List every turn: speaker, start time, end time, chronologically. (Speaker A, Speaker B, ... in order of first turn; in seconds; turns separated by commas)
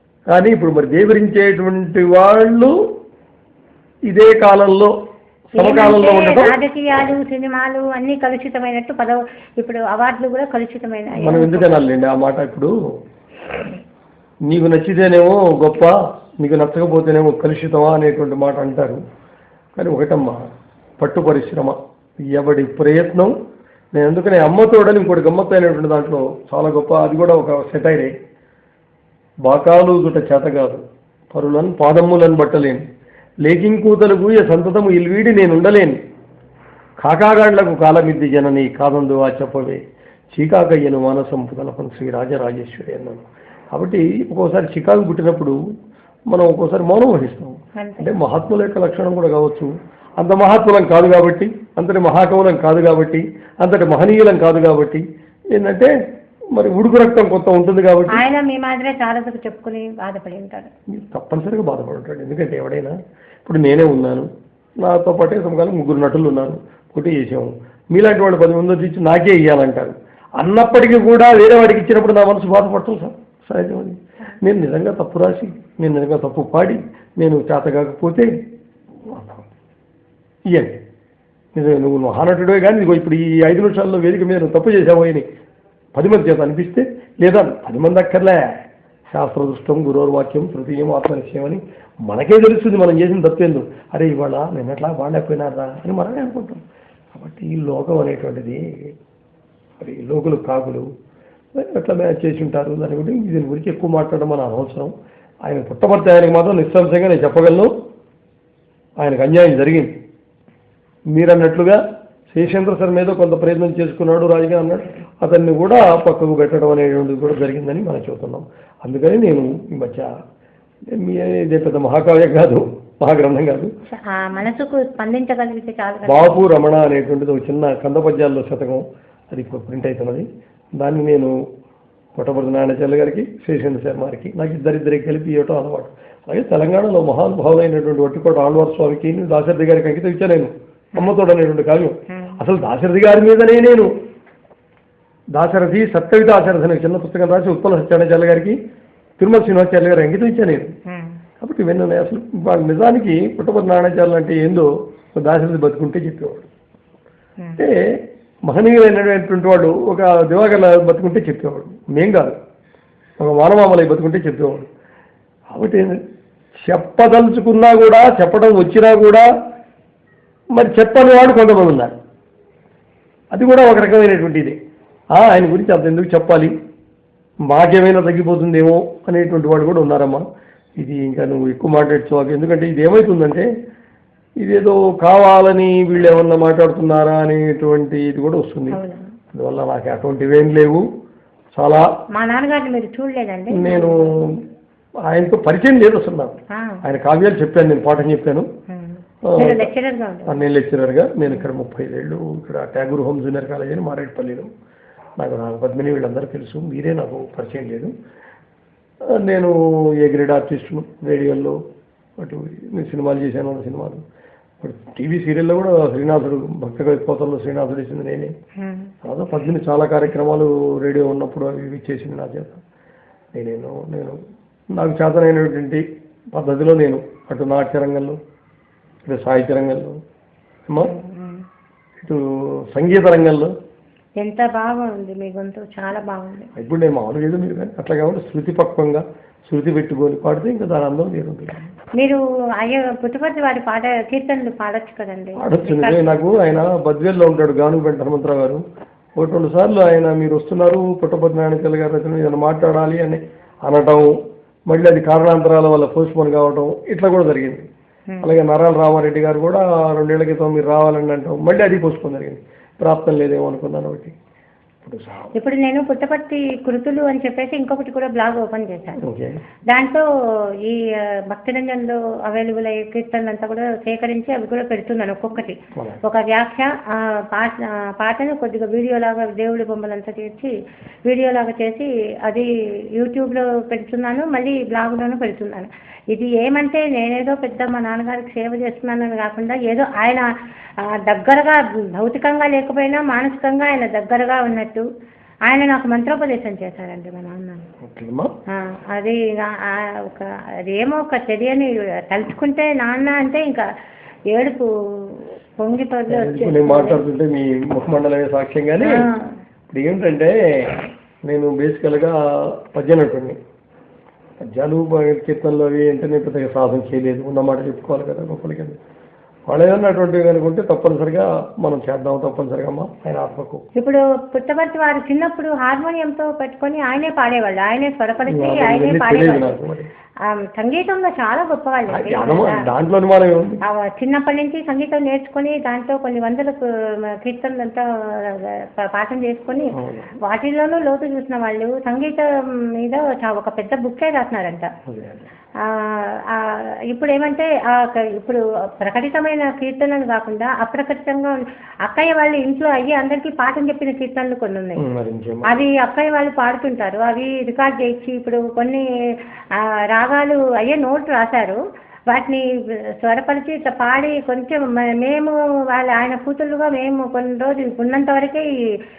Speaker A: 0.3-2.8, Speaker A: 4.1-4.9, Speaker A: 5.5-6.5, Speaker B: 5.5-11.9, Speaker A: 11.2-12.7, Speaker A: 14.5-19.0, Speaker A: 19.8-20.4, Speaker A: 21.0-21.8, Speaker A: 22.3-23.3, Speaker A: 23.9-28.1, Speaker A: 29.4-32.8, Speaker A: 33.5-36.0, Speaker A: 37.0-39.8, Speaker A: 40.3-45.6, Speaker A: 46.3-55.9, Speaker B: 47.8-48.2, Speaker A: 56.5-58.2, Speaker B: 58.1-60.7, Speaker A: 60.9-64.3, Speaker A: 64.8-78.3, Speaker A: 79.1-79.5, Speaker A: 80.5-80.7, Speaker A: 81.5-85.2, Speaker A: 85.9-88.5, Speaker A: 89.1-98.6, Speaker A: 99.8-100.9, Speaker A: 101.5-104.9, Speaker A: 105.5-107.7, Speaker A: 109.0-109.9, Speaker A: 111.1-120.1, Speaker A: 120.9-123.7, Speaker B: 123.9-126.4, Speaker A: 126.0-130.3, Speaker A: 130.8-131.3, Speaker A: 132.2-143.9, Speaker B: 142.1-142.4, Speaker A: 145.3-148.6, Speaker A: 149.2-150.7, Speaker B: 150.9-151.2, Speaker A: 151.4-156.5, Speaker A: 157.6-162.3, Speaker A: 163.2-164.7, Speaker A: 165.5-166.0, Speaker A: 166.6-169.3, Speaker A: 170.6-171.9, Speaker A: 173.3-174.6, Speaker A: 175.1-176.5, Speaker A: 177.5-180.2, Speaker A: 180.8-183.5, Speaker A: 184.4-188.8, Speaker B: 188.7-189.1, Speaker A: 189.3-190.8, Speaker A: 191.6-191.9, Speaker B: 192.1-194.2, Speaker A: 193.5-194.4, Speaker A: 195.1-198.5, Speaker B: 196.5-196.8, Speaker B: 198.7-200.4, Speaker A: 199.3-199.7, Speaker A: 200.3-204.5, Speaker A: 205.2-207.9, Speaker A: 209.1-211.6, Speaker A: 212.2-214.0, Speaker A: 214.6-218.3, Speaker B: 218.6-218.9, Speaker A: 219.0-222.6, Speaker A: 223.3-224.2, Speaker A: 224.7-228.2, Speaker A: 229.1-230.0, Speaker B: 230.8-231.4, Speaker A: 232.7-233.5, Speaker B: 234.2-236.5, Speaker A: 236.6-241.6, Speaker B: 242.0-246.2, Speaker A: 245.4-248.6, Speaker A: 249.2-254.2, Speaker A: 254.7-257.6, Speaker A: 258.2-264.1, Speaker A: 264.8-265.3, Speaker B: 265.3-269.0, Speaker A: 269.0-269.4, Speaker B: 269.7-270.0, Speaker B: 270.6-280.5, Speaker A: 275.7-276.0, Speaker B: 281.0-294.9, Speaker B: 295.4-297.6, Speaker A: 297.8-298.3, Speaker B: 298.5-303.7, Speaker B: 304.3-307.0, Speaker A: 306.1-309.0, Speaker B: 308.8-309.4, Speaker A: 309.7-313.4, Speaker A: 314.4-318.8, Speaker A: 319.5-323.6, Speaker B: 323.8-329.6, Speaker A: 328.3-329.9, Speaker B: 330.2-332.7, Speaker A: 331.9-333.6, Speaker B: 333.6-344.7, Speaker A: 339.7-340.1, Speaker A: 344.9-345.2, Speaker B: 345.6-354.8, Speaker A: 354.8-355.5, Speaker B: 355.4-368.5